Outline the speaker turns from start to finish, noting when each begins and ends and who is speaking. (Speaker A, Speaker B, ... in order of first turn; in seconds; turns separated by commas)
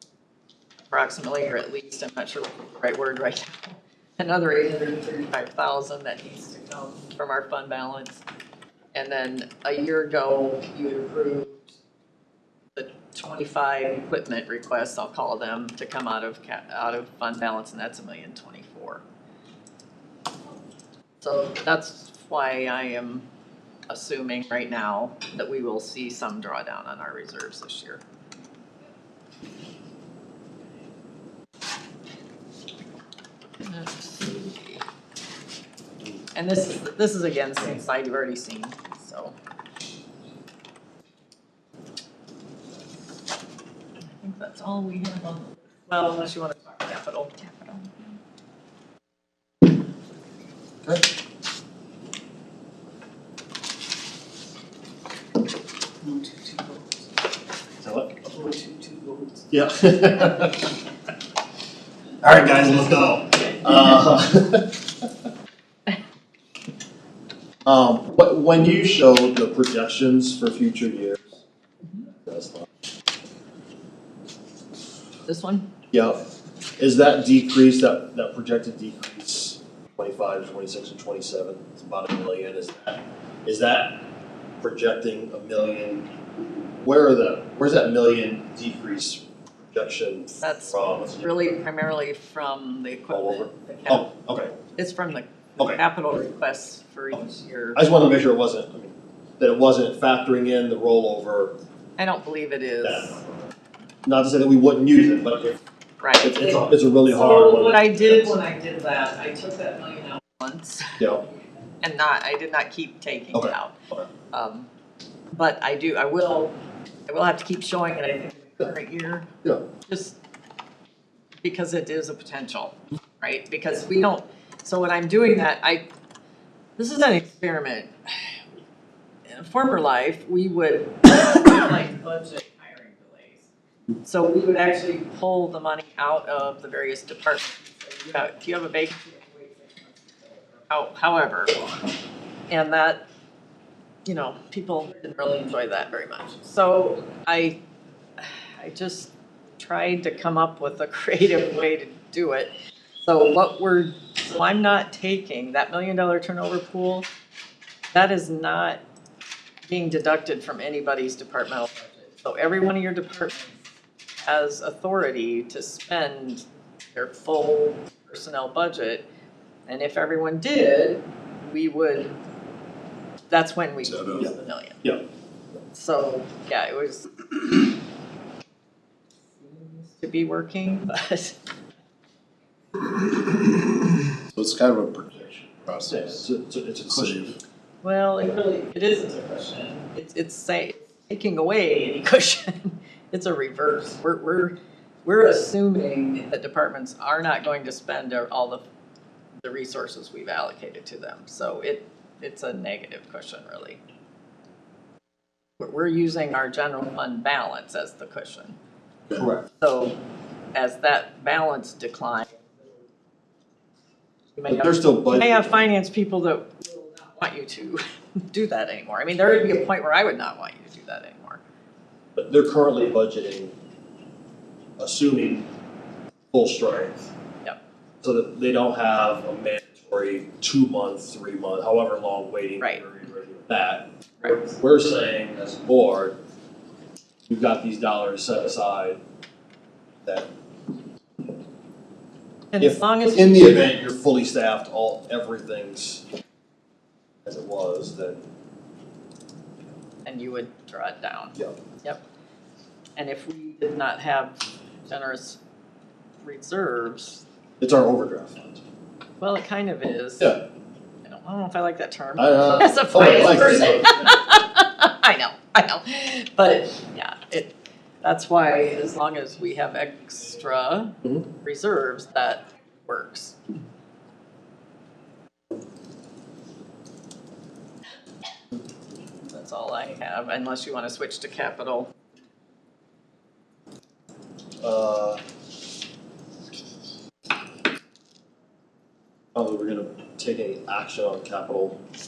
Speaker A: 0.9-8.2, Speaker A: 8.9-11.7, Speaker A: 12.7-19.0, Speaker A: 21.2-23.2, Speaker A: 23.9-28.0, Speaker A: 33.6-34.8, Speaker A: 36.3-39.3, Speaker A: 44.2-48.2, Speaker B: 56.0-56.9, Speaker C: 57.8-58.3, Speaker B: 58.3-59.5, Speaker C: 59.5-60.8, Speaker C: 62.2-65.1, Speaker C: 67.6-71.4, Speaker C: 72.2-72.7, Speaker A: 75.2-75.7, Speaker C: 75.9-84.1, Speaker C: 84.6-86.1, Speaker C: 86.8-91.3, Speaker A: 90.4-94.1, Speaker C: 93.1-94.6, Speaker A: 94.7-97.8, Speaker C: 97.7-101.6, Speaker A: 102.0-103.2, Speaker C: 102.8-103.3, Speaker C: 104.0-105.6, Speaker A: 106.0-111.1, Speaker C: 106.2-108.4, Speaker A: 111.8-113.7, Speaker C: 113.3-114.0, Speaker A: 114.3-114.7, Speaker A: 115.3-116.5, Speaker A: 117.1-119.2, Speaker A: 119.9-120.2, Speaker A: 121.4-125.8, Speaker A: 126.8-128.4, Speaker A: 129.2-133.5, Speaker A: 134.0-141.9, Speaker A: 142.5-143.0, Speaker A: 144.0-147.6, Speaker A: 148.2-152.5, Speaker A: 153.0-157.1, Speaker A: 157.9-158.8, Speaker A: 159.7-163.6, Speaker A: 164.2-169.0, Speaker A: 169.7-172.1, Speaker A: 173.3-174.8, Speaker D: 174.0-174.2, Speaker A: 175.7-177.1, Speaker A: 179.3-181.4, Speaker D: 184.3-186.1, Speaker C: 185.9-187.4, Speaker D: 187.0-187.3, Speaker A: 187.8-194.5, Speaker A: 195.0-198.6, Speaker A: 199.4-203.8, Speaker A: 205.6-208.6, Speaker C: 209.1-209.4, Speaker A: 209.5-210.0, Speaker A: 210.5-212.7, Speaker A: 214.3-221.4, Speaker C: 214.5-215.6, Speaker C: 222.2-223.5, Speaker C: 224.8-225.5, Speaker C: 226.3-227.1, Speaker C: 228.0-236.2, Speaker C: 237.3-239.0, Speaker A: 242.5-243.5, Speaker C: 242.6-246.0, Speaker C: 247.2-248.2, Speaker A: 250.0-252.0, Speaker A: 253.0-255.4, Speaker A: 256.2-257.2, Speaker C: 257.6-258.6, Speaker A: 259.2-260.4, Speaker A: 261.0-273.4, Speaker C: 262.2-264.1, Speaker A: 279.3-281.9, Speaker C: 284.6-285.2, Speaker C: 289.3-291.8